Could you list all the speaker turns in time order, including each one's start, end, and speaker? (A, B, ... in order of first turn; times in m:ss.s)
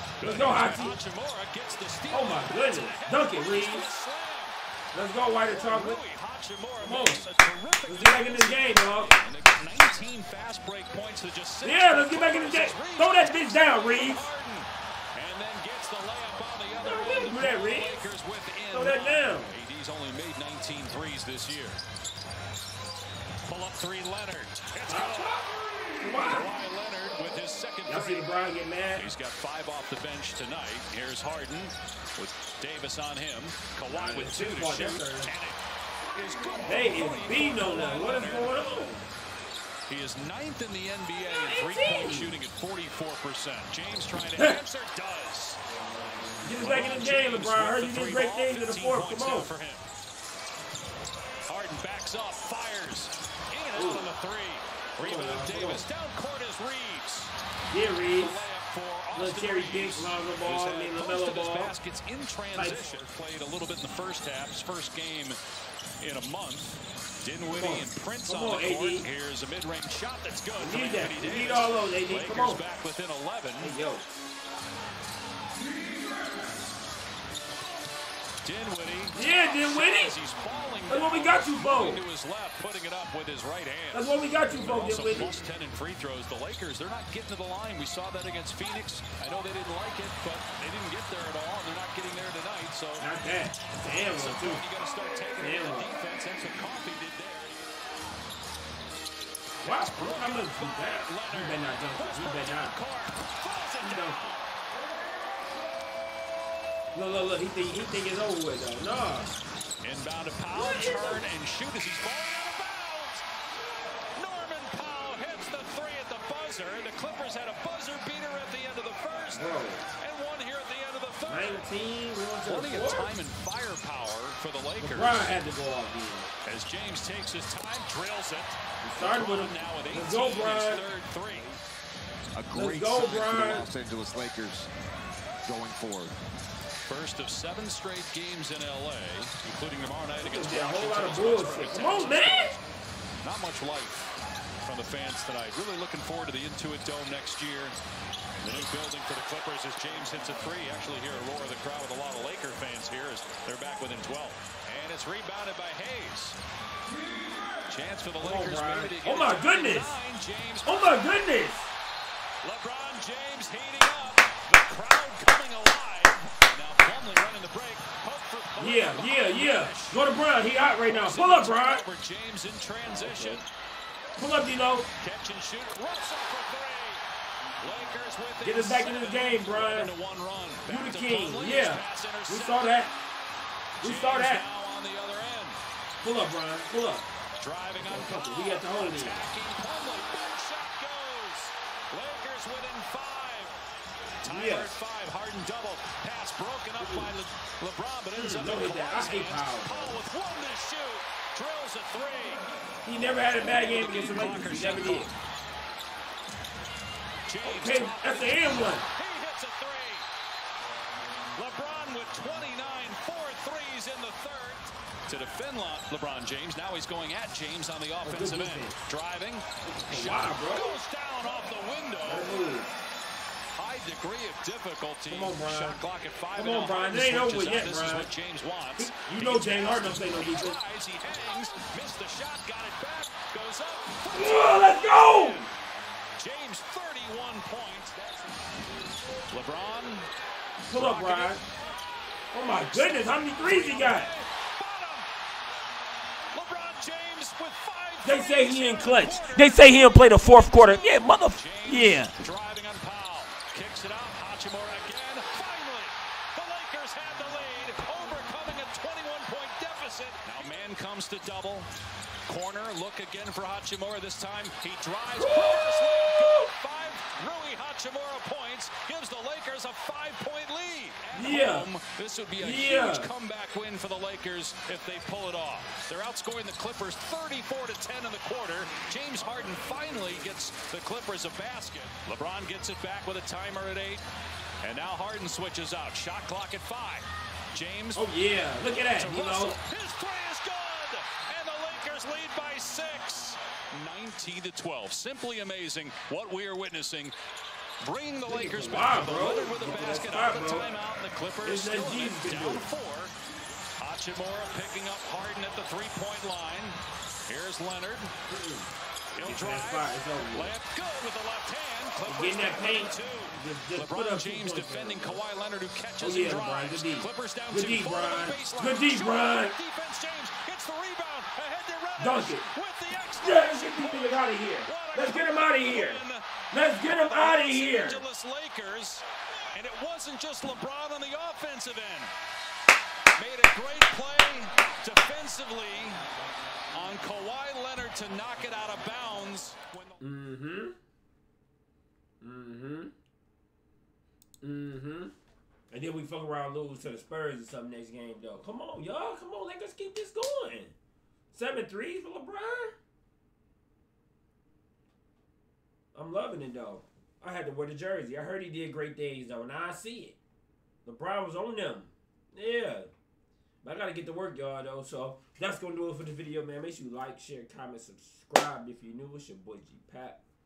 0:00.2-0:01.0 A
0:00.2-0:04.6 B
0:02.1-0:03.9 A
0:04.9-0:06.0 A
0:05.5-0:21.8 B
0:06.8-0:07.2 A
0:07.8-0:09.2 A
0:11.6-0:14.2 A
0:16.8-0:18.0 A
0:18.7-0:19.5 A
0:23.4-0:25.4 B
0:24.9-0:26.5 A
0:26.2-0:28.3 B
0:27.8-0:29.1 A
0:28.9-0:35.6 B
0:33.9-0:35.3 A
0:36.1-0:38.6 B
0:36.6-0:39.0 A
0:39.9-0:45.6 B
0:41.3-0:42.4 A
0:46.4-0:49.5 A
0:46.6-0:49.8 B
0:51.5-0:57.3 B
0:53.7-0:54.1 A
0:55.0-0:55.8 A
0:57.7-0:58.4 A
0:58.1-1:05.4 B
0:59.1-1:01.7 A
1:02.5-1:02.9 A
1:06.0-1:13.7 B
1:07.5-1:09.0 A
1:10.6-1:12.6 A
1:13.6-1:14.1 A
1:18.4-1:33.1 B
1:19.1-1:20.1 A
1:20.9-1:22.0 A
1:23.9-1:25.4 A
1:33.0-1:34.6 A
1:34.1-1:37.6 B
1:35.4-1:36.0 A
1:39.6-1:42.8 A
1:39.6-1:44.4 B
1:43.8-1:44.3 A
1:46.9-1:49.3 A
1:49.8-1:53.2 B
1:50.5-1:51.2 A
1:54.2-2:01.7 B
1:59.3-1:59.8 A
2:01.3-2:03.1 A
2:02.4-2:05.3 B
2:04.8-2:06.3 A
2:06.4-2:11.6 B
2:08.8-2:10.8 A
2:12.3-2:14.7 C
2:12.5-2:13.7 A
2:15.4-2:16.2 C
2:16.9-2:22.6 B
2:20.2-2:22.6 A
2:23.2-2:27.8 B
2:28.4-2:36.4 B
2:37.7-2:41.1 B
2:38.2-2:40.0 A
2:40.6-2:41.7 A
2:42.4-2:50.0 B
2:48.6-2:51.8 A
2:50.9-2:53.4 B
2:52.9-2:53.4 A
2:54.2-2:54.9 A
2:55.0-2:57.0 B
2:57.6-3:02.7 B
2:58.4-2:59.9 A
3:00.6-3:02.9 A
3:03.8-3:05.6 B
3:03.8-3:04.4 A
3:06.0-3:07.1 A
3:07.4-3:13.6 B
3:07.8-3:09.2 A
3:14.2-3:22.4 B
3:14.2-3:14.8 A
3:18.1-3:20.0 A
3:22.8-3:25.1 A
3:23.5-3:25.1 B
3:27.3-3:30.0 B
3:27.4-3:28.8 A
3:31.4-3:42.3 B
3:38.0-3:38.8 A
3:39.7-3:40.8 A
3:42.0-3:42.7 A
3:43.6-3:55.5 B
3:45.1-3:45.8 A
3:46.3-3:48.1 A
3:48.8-3:50.6 A
3:54.1-3:55.4 A
3:56.2-3:58.0 B
3:59.3-4:00.1 B
4:00.6-4:01.4 A
4:00.7-4:01.4 B
4:02.3-4:04.1 A
4:02.5-4:05.1 B
4:06.3-4:21.7 B
4:08.0-4:12.1 A
4:22.2-4:44.0 B
4:25.2-4:26.5 A
4:31.1-4:31.7 A
4:32.4-4:33.1 A
4:44.6-4:48.0 B
4:47.9-4:49.6 A
4:48.9-4:57.1 B
4:57.8-5:03.1 B
4:58.3-5:00.6 A
5:01.4-5:02.7 A
5:03.8-5:08.1 B
5:08.3-5:08.7 A
5:09.2-5:32.1 B
5:09.2-5:10.5 A
5:12.0-5:15.2 A
5:16.0-5:19.6 A
5:22.0-5:22.4 A
5:23.2-5:28.0 A
5:33.2-5:36.1 B
5:36.7-5:40.0 B
5:40.0-5:40.8 A
5:42.2-5:42.9 A
5:44.4-5:45.1 A
5:45.7-5:50.7 A
5:51.3-5:52.8 A
5:55.9-6:00.2 A
6:00.8-6:02.9 A
6:03.6-6:10.2 A